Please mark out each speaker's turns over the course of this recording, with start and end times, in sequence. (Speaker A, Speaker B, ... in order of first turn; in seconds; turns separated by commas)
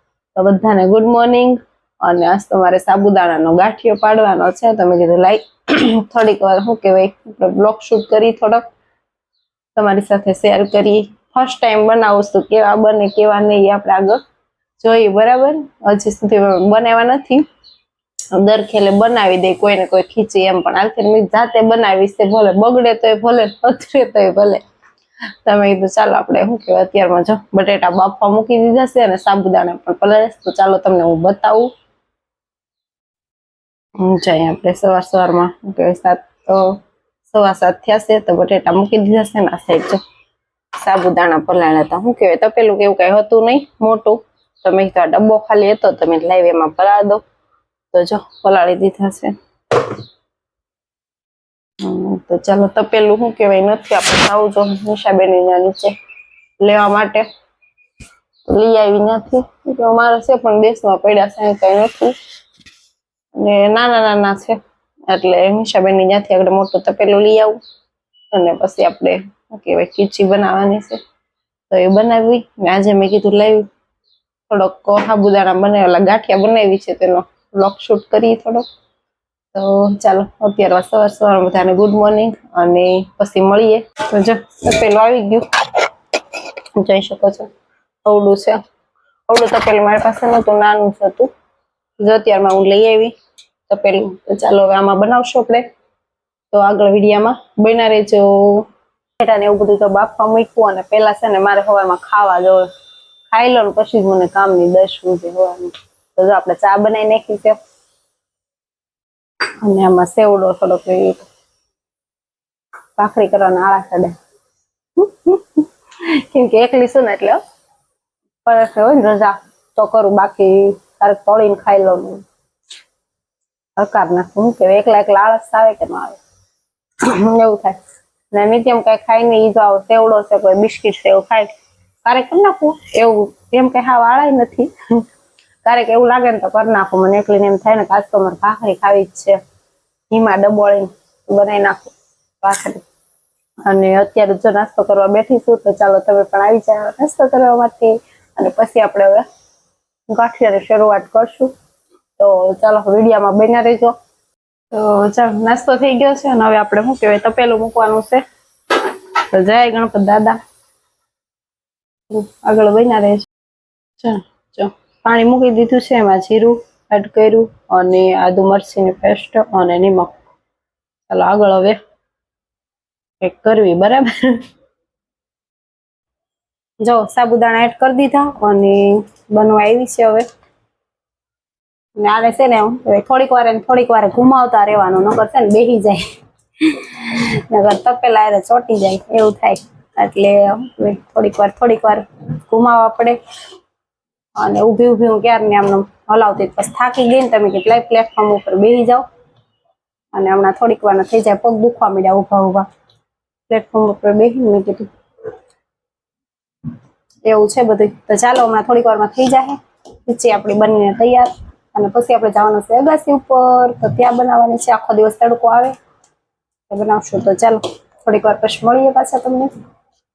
Speaker A: 0.4-8.7, Speaker A: 9.8-14.2, Speaker A: 14.8-17.5, Speaker A: 18.3-24.6, Speaker A: 25.4-31.7, Speaker A: 34.0-40.0, Speaker A: 40.8-47.2, Speaker A: 47.9-49.9, Speaker A: 51.8-56.0, Speaker A: 56.6-57.3, Speaker A: 58.5-62.2, Speaker A: 63.3-67.6, Speaker A: 68.3-71.0, Speaker A: 71.7-73.7, Speaker A: 74.5-78.7, Speaker A: 79.5-85.5, Speaker A: 86.8-87.5, Speaker A: 88.0-88.6, Speaker A: 89.3-91.3, Speaker A: 92.0-93.1, Speaker A: 93.7-95.7, Speaker A: 96.5-98.7, Speaker A: 99.2-102.7, Speaker A: 103.3-107.6, Speaker A: 109.6-111.3, Speaker A: 113.0-114.2, Speaker A: 115.0-117.4, Speaker A: 118.5-122.2, Speaker A: 123.8-126.2, Speaker A: 127.0-131.5, Speaker A: 132.0-134.7, Speaker A: 135.6-139.4, Speaker A: 140.1-142.8, Speaker A: 143.7-149.3, Speaker A: 150.1-151.5, Speaker A: 152.2-154.0, Speaker A: 154.7-158.2, Speaker A: 158.8-160.4, Speaker A: 162.1-163.3, Speaker A: 164.0-170.2, Speaker A: 171.1-171.8, Speaker A: 173.2-174.4, Speaker A: 176.8-180.3, Speaker A: 182.0-186.1, Speaker A: 186.6-193.2, Speaker A: 194.4-199.1, Speaker A: 200.1-202.7, Speaker A: 203.5-204.9, Speaker A: 207.2-215.8, Speaker A: 216.7-219.5